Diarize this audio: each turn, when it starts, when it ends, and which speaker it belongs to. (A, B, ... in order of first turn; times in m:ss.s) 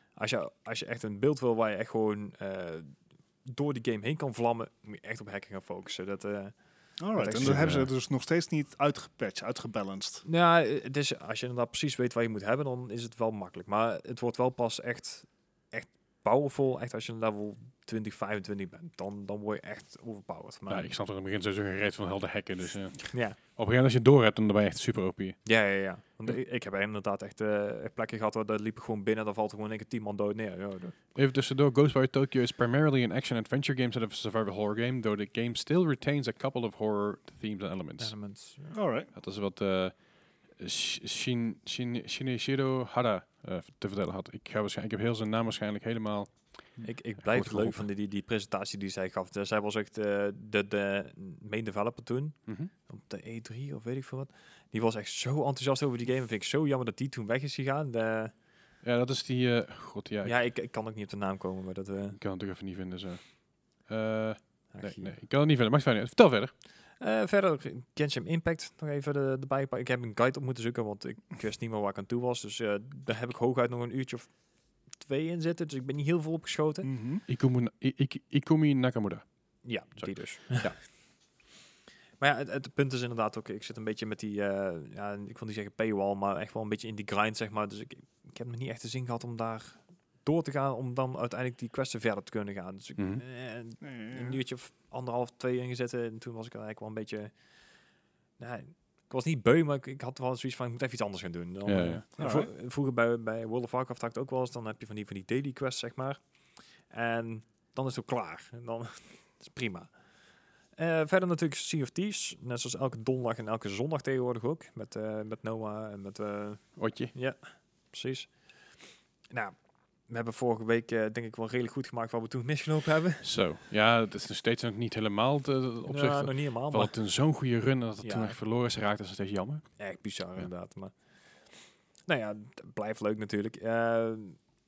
0:00.2-0:07.7 A
0:07.0-0:10.2 B
0:07.4-0:07.9 C
0:10.2-0:20.9 A
0:20.7-0:25.4 C
0:23.1-0:23.4 A
0:25.4-0:31.0 A
0:31.2-0:38.1 C
0:38.0-0:38.8 A
0:38.7-0:39.1 B
0:39.1-0:40.0 C
0:40.6-0:46.3 C
0:46.8-0:58.3 A
0:47.2-0:47.8 C
0:58.8-1:00.4 C
1:00.2-1:02.2 A
1:02.2-1:06.5 C
1:04.7-1:05.1 A
1:07.0-1:14.3 A
1:15.0-1:16.9 A
1:16.8-1:17.2 B
1:17.3-1:19.2 C
1:19.6-1:20.9 A
1:20.0-1:20.8 C
1:22.2-1:37.3 A
1:33.0-1:33.2 C
1:33.8-1:34.4 B
1:38.4-1:46.2 A
1:41.6-1:42.0 C
1:42.2-1:42.5 B
1:46.9-1:49.9 A
1:50.8-1:58.4 A
1:56.8-1:57.1 C
1:59.3-1:59.6 A
2:00.1-2:03.3 A
2:03.2-2:09.7 C
2:05.9-2:07.0 A
2:08.0-2:08.4 A
2:09.8-2:10.9 A
2:12.1-2:14.4 A